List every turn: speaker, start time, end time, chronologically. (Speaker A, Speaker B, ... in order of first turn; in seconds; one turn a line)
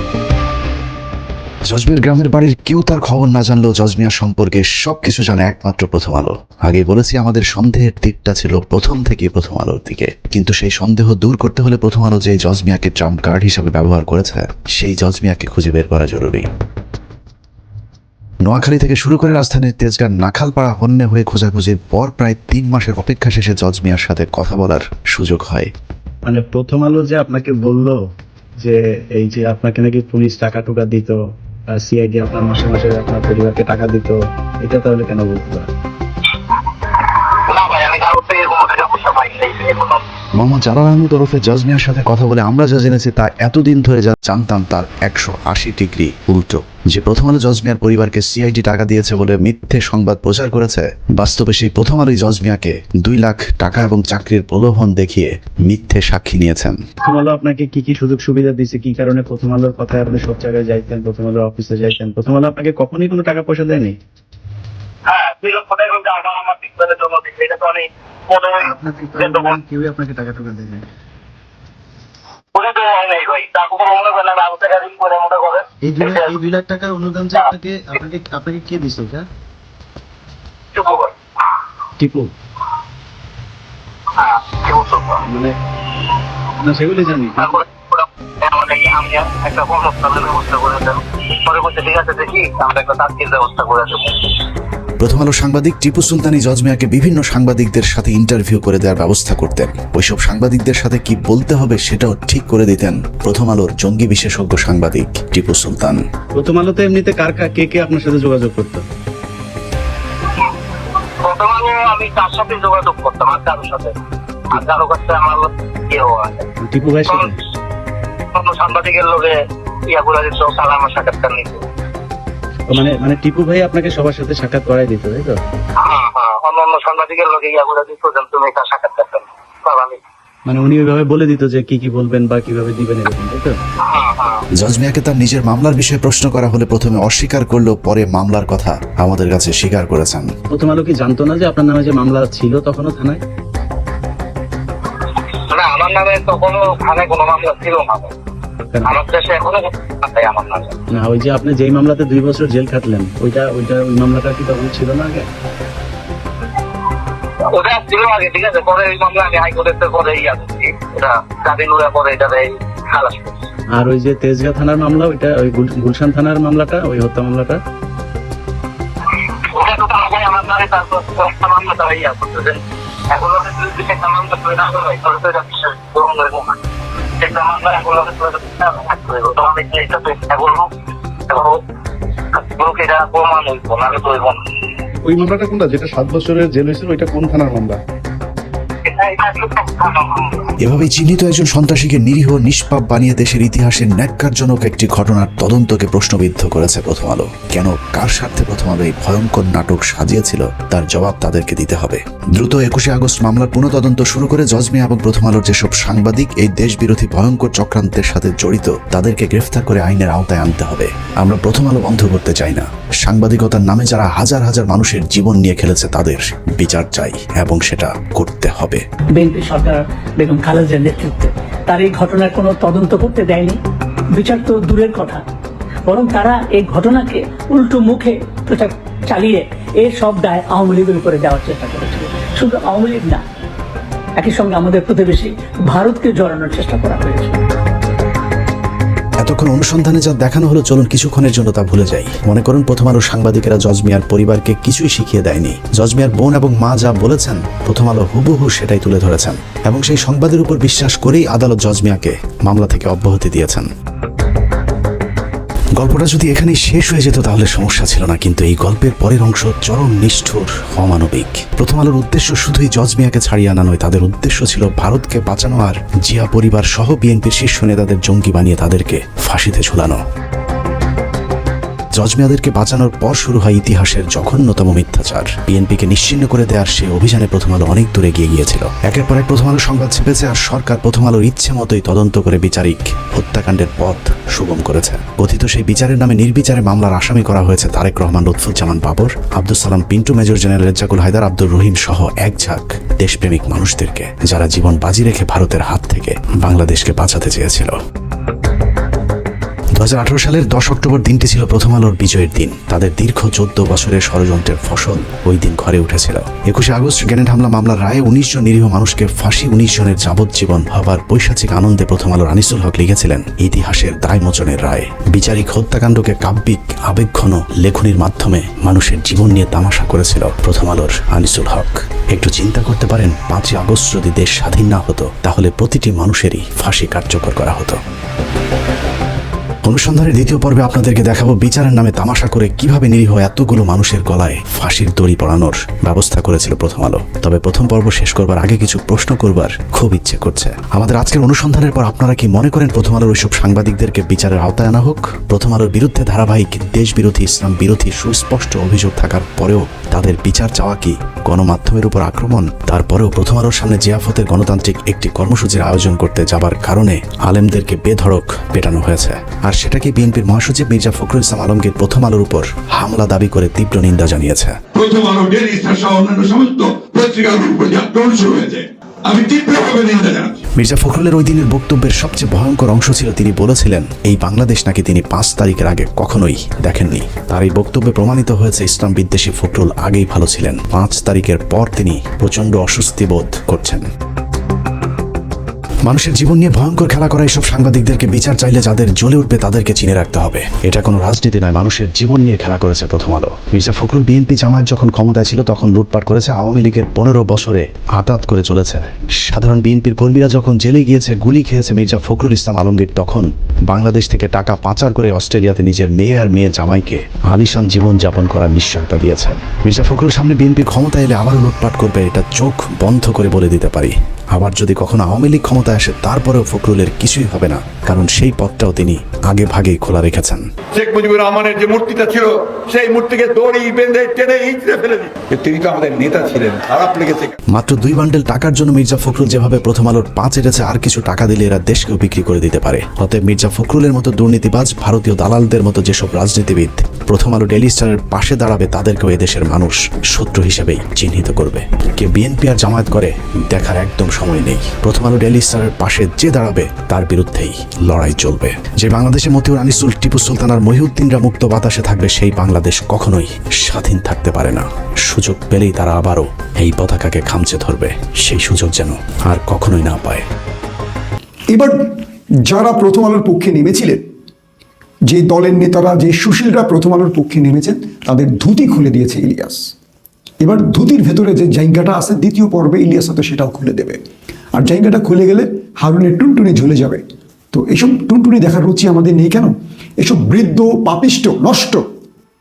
Speaker A: 1.7-16.5
Speaker A: 18.4-25.7
Speaker B: 26.2-28.0
Speaker B: 28.6-31.2
Speaker B: 31.7-35.7
Speaker C: 37.3-40.0
Speaker A: 40.4-56.8
Speaker B: 57.0-64.0
Speaker C: 65.1-69.6
Speaker B: 68.6-70.8
Speaker C: 72.5-76.3
Speaker B: 75.8-79.3
Speaker C: 80.8-81.1
Speaker B: 82.0-82.3
Speaker C: 84.2-85.2
Speaker B: 85.2-85.5
Speaker B: 86.6-87.6
Speaker C: 87.4-94.3
Speaker A: 95.0-106.0
Speaker B: 106.3-108.8
Speaker C: 111.2-114.0
Speaker C: 114.5-116.5
Speaker B: 116.6-117.4
Speaker C: 118.3-119.3
Speaker C: 119.9-121.6
Speaker B: 122.7-125.4
Speaker C: 125.8-130.0
Speaker B: 130.5-133.6
Speaker C: 133.8-134.4
Speaker A: 134.6-140.3
Speaker B: 140.5-143.2
Speaker C: 145.5-148.1
Speaker C: 148.8-150.8
Speaker B: 150.9-155.3
Speaker C: 157.5-163.4
Speaker B: 163.7-167.6
Speaker C: 169.4-176.6
Speaker C: 177.2-180.7
Speaker C: 181.3-181.6
Speaker C: 182.3-184.4
Speaker B: 185.0-187.8
Speaker C: 188.8-190.5
Speaker A: 190.6-218.8
Speaker D: 219.2-223.6
Speaker D: 224.1-225.2
Speaker D: 225.9-233.2
Speaker D: 234.2-237.4
Speaker A: 239.2-253.7
Speaker A: 255.8-270.0
Speaker A: 271.9-297.8
Speaker A: 299.8-327.8
Speaker A: 329.6-364.6
Speaker E: 364.7-370.4
Speaker A: 370.6-383.8
Speaker A: 385.9-420.4
Speaker E: 420.7-427.4
Speaker A: 427.5-460.2
Speaker F: 461.5-464.1
Speaker F: 465.1-469.7
Speaker F: 470.4-474.0
Speaker F: 474.5-481.9